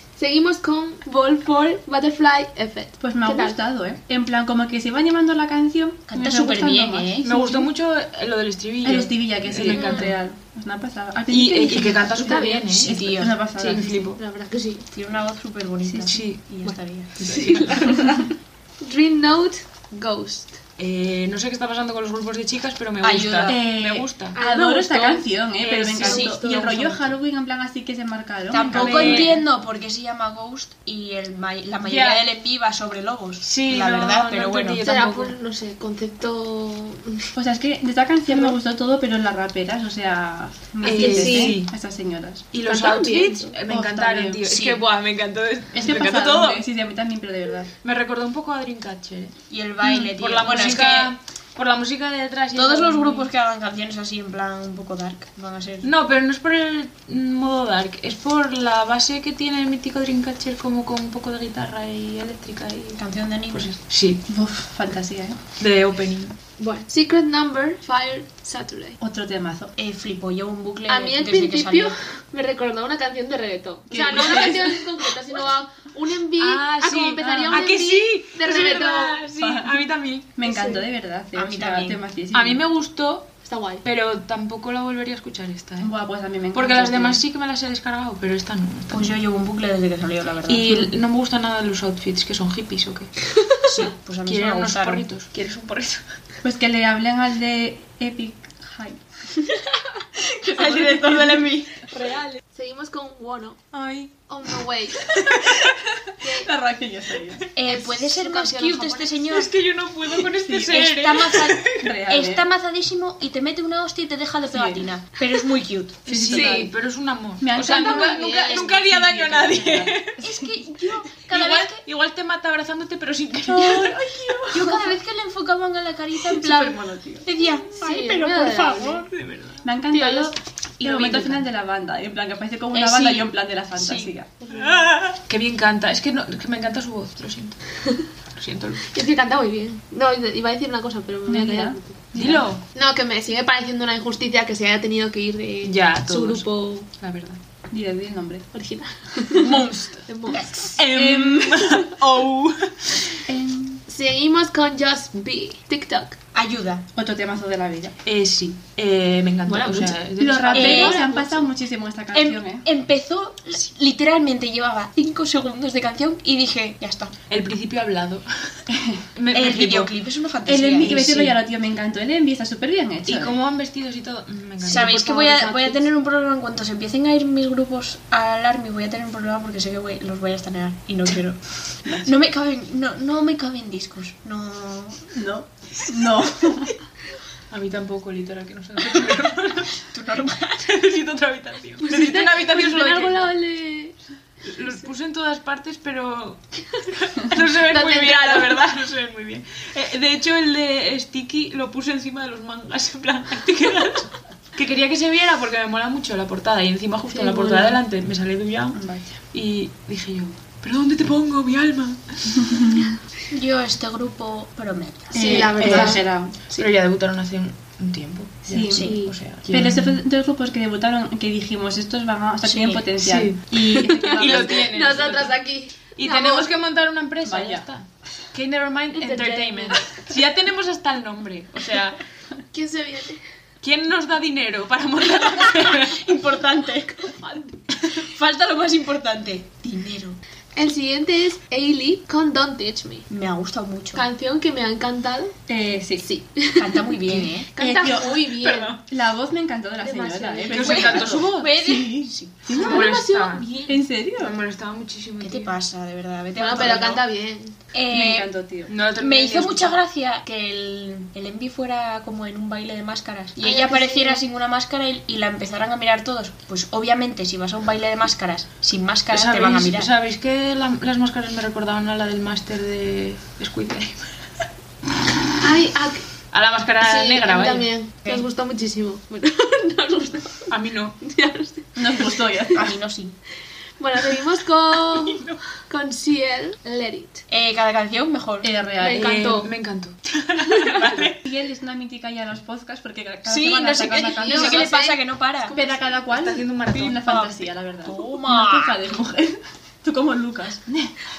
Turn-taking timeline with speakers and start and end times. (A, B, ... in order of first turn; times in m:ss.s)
0:00.2-0:03.6 A
0:03.0-0:07.6 B
0:06.1-0:07.6 C
0:07.2-0:10.2 D
0:08.8-0:14.0 B
0:09.7-0:10.1 A
0:11.3-0:12.9 D
0:12.2-0:12.8 A
0:12.7-0:13.4 C
0:13.6-0:14.2 D
0:13.8-0:14.9 A
0:14.9-0:17.2 C
0:15.8-0:16.2 B
0:16.1-0:16.5 D
0:17.2-0:18.0 D
0:17.2-0:20.6 A
0:20.8-0:24.4 D
0:23.0-0:23.6 C
0:23.5-0:29.4 B
0:24.4-0:25.2 A
0:25.6-0:27.1 D
0:26.0-0:26.4 C
0:26.0-0:26.5 A
0:28.5-0:34.8 C
0:28.7-0:29.4 D
0:31.8-0:32.3 D
0:33.4-0:35.4 D
0:34.8-0:37.3 A
0:37.4-0:42.5 B
0:40.8-0:41.7 D
0:41.0-0:41.6 A
0:42.5-0:46.6 D
0:42.7-0:43.5 A
0:43.7-0:44.4 B
0:44.5-0:44.8 C
0:45.7-0:47.7 B
0:47.8-0:53.3 D
0:49.5-0:51.1 C
0:52.6-0:55.9 C
0:55.8-1:04.2 D
1:03.0-1:03.7 C
1:04.3-1:05.4 B
1:05.6-1:06.3 D
1:06.6-1:09.0 A
1:09.0-1:09.7 B
1:09.8-1:12.0 C
1:10.9-1:19.2 A
1:13.9-1:14.9 B
1:16.4-1:20.4 D
1:17.2-1:17.7 B
1:19.4-1:19.8 B
1:20.4-1:22.6 B
1:20.5-1:20.8 A
1:21.4-1:22.0 C
1:22.3-1:25.9 D
1:23.4-1:23.8 A
1:25.8-1:27.2 B
1:26.5-1:29.1 D
1:28.9-1:30.9 C
1:30.5-1:36.0 D
1:33.8-1:35.0 C
1:36.4-1:39.0 B
1:40.2-1:41.7 C
1:40.5-1:41.4 B
1:40.6-1:41.5 D
1:41.9-1:43.6 A
1:43.7-1:44.1 D
1:44.3-1:45.2 A
1:45.4-1:47.4 B
1:46.2-1:46.5 A
1:47.6-1:49.5 C
1:47.7-1:49.2 A
1:49.3-1:51.9 D
1:50.4-1:50.9 B
1:50.6-1:56.5 C
1:51.7-1:52.5 B
1:54.5-1:54.9 B
1:56.1-1:56.7 B
1:56.1-2:00.2 D
1:57.4-2:00.5 B
1:57.6-1:58.8 A
2:00.2-2:01.8 C
2:01.3-2:04.8 D
2:03.5-2:04.9 B
2:04.5-2:09.1 C
2:06.2-2:07.3 B
2:07.6-2:09.1 A
2:09.1-2:09.6 D
2:09.6-2:14.3 B
2:09.9-2:10.4 A
2:10.8-2:11.4 D
2:12.7-2:13.2 C
2:13.8-2:14.1 C
2:14.4-2:15.0 A
2:14.5-2:17.6 D
2:18.4-2:18.9 D
2:18.9-2:22.0 A
2:21.3-2:22.5 B
2:22.2-2:22.6 D
2:22.7-2:26.9 A
2:25.6-2:27.4 D
2:27.7-2:28.5 B
2:28.5-2:30.6 A
2:29.4-2:30.1 D
2:30.3-2:30.8 C
2:30.6-2:33.2 D
2:30.9-2:31.8 B
2:33.3-2:33.8 B
2:33.9-2:36.2 A
2:36.3-2:36.8 C
2:37.0-2:38.0 B
2:38.0-2:41.0 D
2:39.5-2:40.0 A
2:40.2-2:42.6 B
2:40.5-2:41.5 A
2:40.5-2:41.1 C
2:42.1-2:47.2 C
2:47.3-2:48.3 D
2:48.7-2:49.0 B
2:49.2-2:49.9 D
2:49.3-2:51.1 C
2:50.5-2:53.4 B
2:50.8-2:51.4 D
2:53.1-2:55.7 D
2:54.6-3:05.1 C
2:54.7-2:55.4 A
3:05.1-3:06.7 B
3:07.5-3:09.8 D
3:09.7-3:10.7 C
3:10.6-3:13.3 D
3:11.8-3:14.0 A
3:14.4-3:28.8 D
3:17.7-3:18.6 A
3:27.1-3:27.8 A
3:28.7-3:29.2 B
3:29.3-3:32.8 D
3:33.3-3:36.0 C
3:35.1-3:36.4 B
3:35.2-3:36.0 A
3:35.6-3:36.0 D
3:36.6-3:40.0 D
3:38.5-3:39.0 B
3:38.7-3:39.0 C
3:38.8-3:39.1 A
3:39.5-3:44.7 B
3:42.4-3:42.8 C
3:43.0-3:45.4 D
3:43.7-3:46.5 A
3:45.9-3:52.0 D
3:47.2-3:47.6 B
3:49.0-3:49.9 A
3:52.5-3:53.2 A
3:53.6-3:56.1 D
3:55.4-3:57.1 C
3:57.2-3:57.5 A
3:57.8-4:00.2 C
4:00.6-4:03.1 A
4:03.1-4:04.0 C
4:04.0-4:05.4 A
4:05.5-4:06.1 B
4:06.0-4:08.8 A
4:06.6-4:07.5 C
4:07.6-4:12.9 B
4:08.4-4:08.8 D
4:09.8-4:11.2 A
4:10.5-4:11.6 D
4:11.1-4:12.4 C
4:12.5-4:13.6 D
4:12.5-4:13.8 A
4:13.7-4:14.4 B
4:14.2-4:15.6 D
4:15.2-4:17.0 C
4:16.4-4:17.6 A
4:17.7-4:18.3 C
4:17.9-4:18.7 B
4:18.7-4:19.8 D
4:19.0-4:29.9 C
4:23.4-4:24.2 A
4:29.1-4:34.1 D
4:35.4-4:36.0 A
4:36.3-4:37.7 D
4:36.8-4:42.6 A
4:40.5-4:41.0 D
4:41.8-4:42.8 B
4:42.5-4:43.2 C
4:43.8-4:47.2 A
4:44.8-4:45.4 D
4:47.3-4:48.5 C
4:48.4-4:49.2 B
4:48.8-4:49.5 A
4:48.9-4:51.2 D
4:50.6-4:51.0 A
4:51.2-4:54.7 B
4:53.3-4:55.6 C
4:54.2-4:55.9 A
4:55.5-5:01.0 B
4:56.1-4:57.3 D
4:57.8-4:58.8 C